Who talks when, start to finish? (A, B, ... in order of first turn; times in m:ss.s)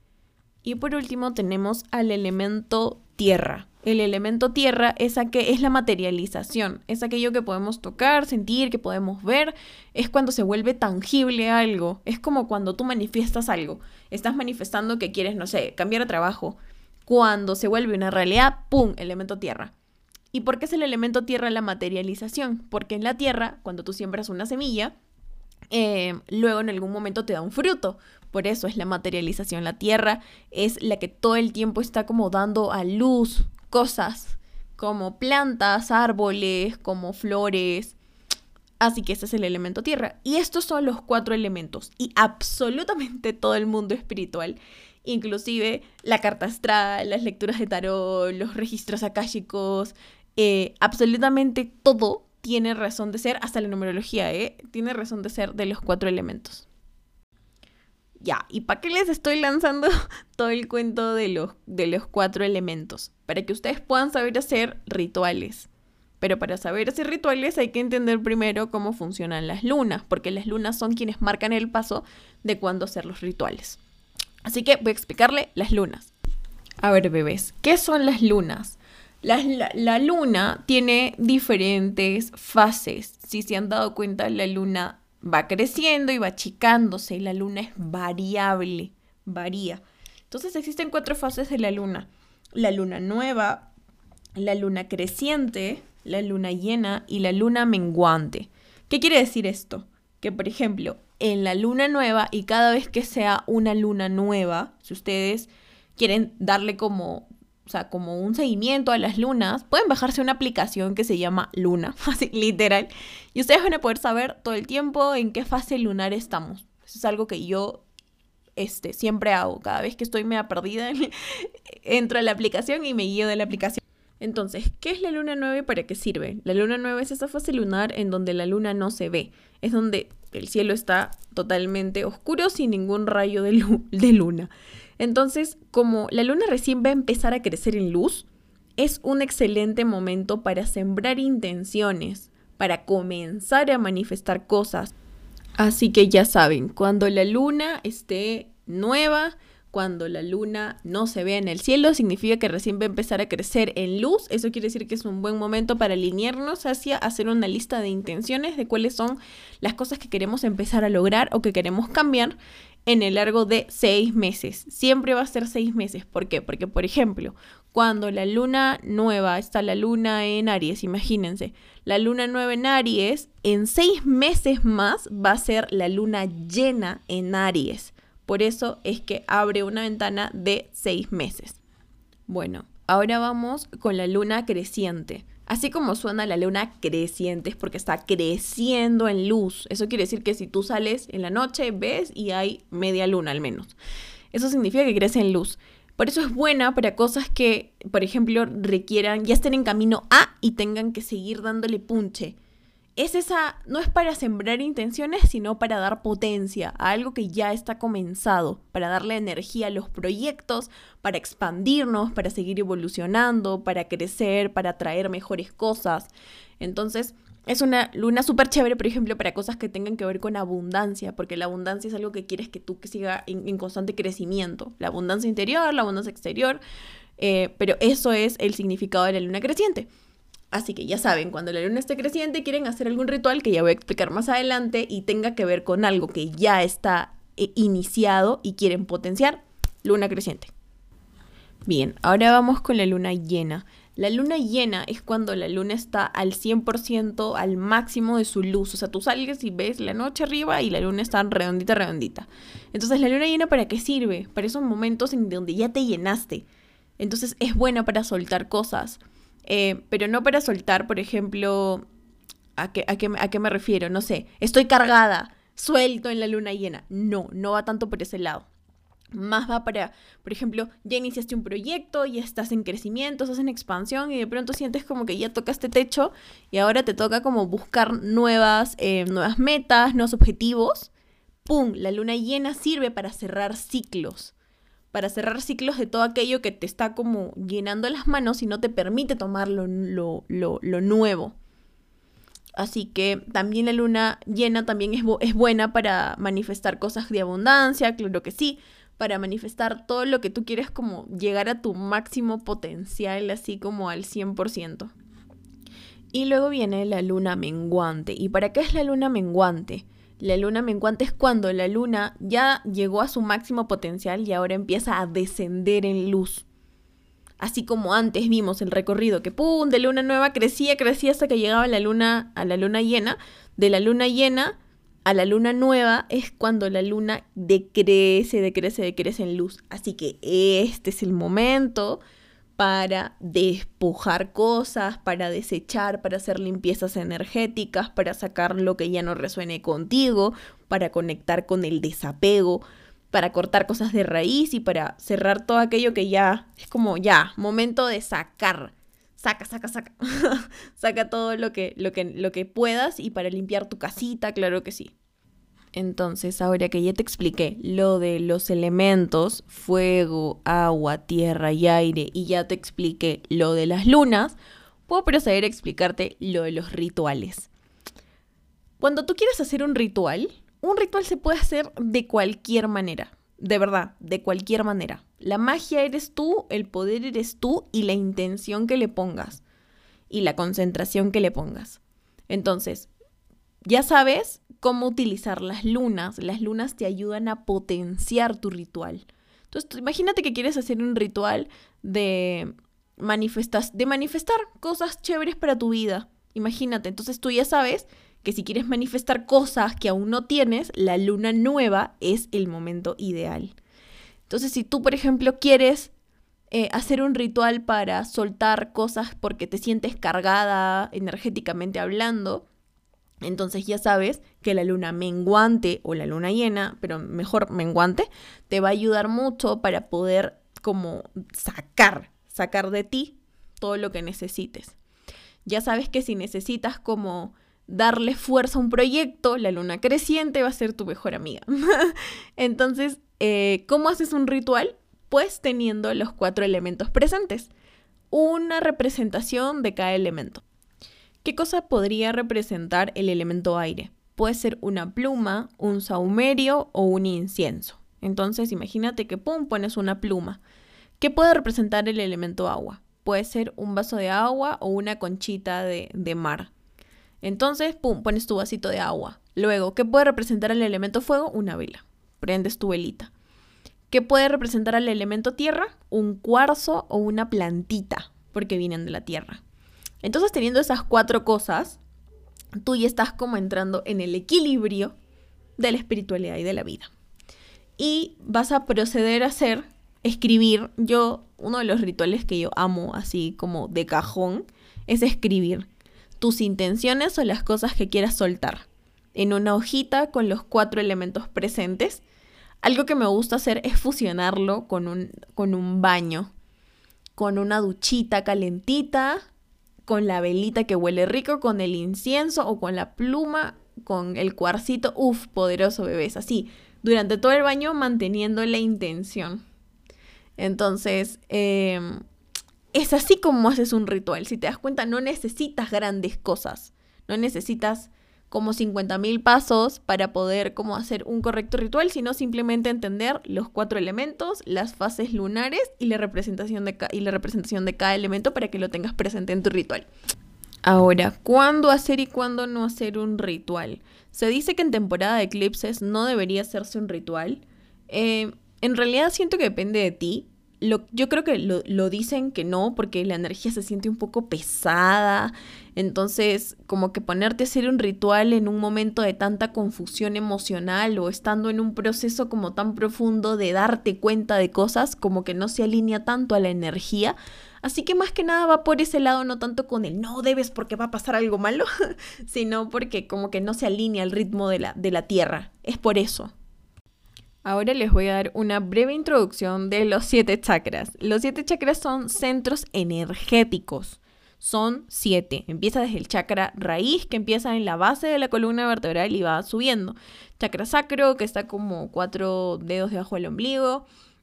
0:00.6-0:19.7 A
0:20.3-0:24.9 A
0:25.7-0:38.0 A
0:38.8-0:56.6 A
0:58.2-1:05.7 A
1:06.2-1:13.8 A
1:14.4-1:16.1 A
1:16.8-1:33.7 A
1:34.4-1:57.8 A
1:58.6-2:18.3 A
2:18.8-2:24.9 A
2:25.6-3:01.6 A
3:02.3-3:13.8 A
3:14.3-3:22.4 A
3:23.0-3:46.6 A
3:47.2-3:49.9 A
3:50.5-4:00.5 A
4:01.6-4:16.4 A
4:17.0-4:21.8 A
4:22.6-4:28.5 A
4:29.1-4:40.9 A
4:41.4-4:44.3 A
4:44.9-4:51.4 A
4:52.6-5:04.9 A
5:06.1-5:16.4 A
5:17.4-5:32.0 A
5:32.6-5:54.9 A
5:55.7-6:04.4 A
6:04.9-6:07.5 A
6:08.8-6:19.4 A
6:20.1-6:22.9 A
6:23.6-6:43.6 A
6:44.3-6:45.9 A
6:46.5-6:52.4 A
6:53.2-7:04.8 A
7:05.4-7:17.5 A
7:18.1-7:20.4 A
7:21.2-7:30.4 A
7:31.0-7:36.5 A
7:37.2-7:43.1 A
7:43.9-7:49.4 A
7:50.0-7:51.8 A
7:52.6-7:55.0 A
7:55.6-7:56.9 A
7:57.8-8:05.7 A
8:06.2-8:12.0 A
8:12.6-8:16.3 A
8:17.2-8:19.2 A
8:19.8-8:29.4 A
8:30.4-8:32.0 A
8:32.7-8:49.9 A
8:50.6-9:26.3 A
9:27.4-9:43.8 A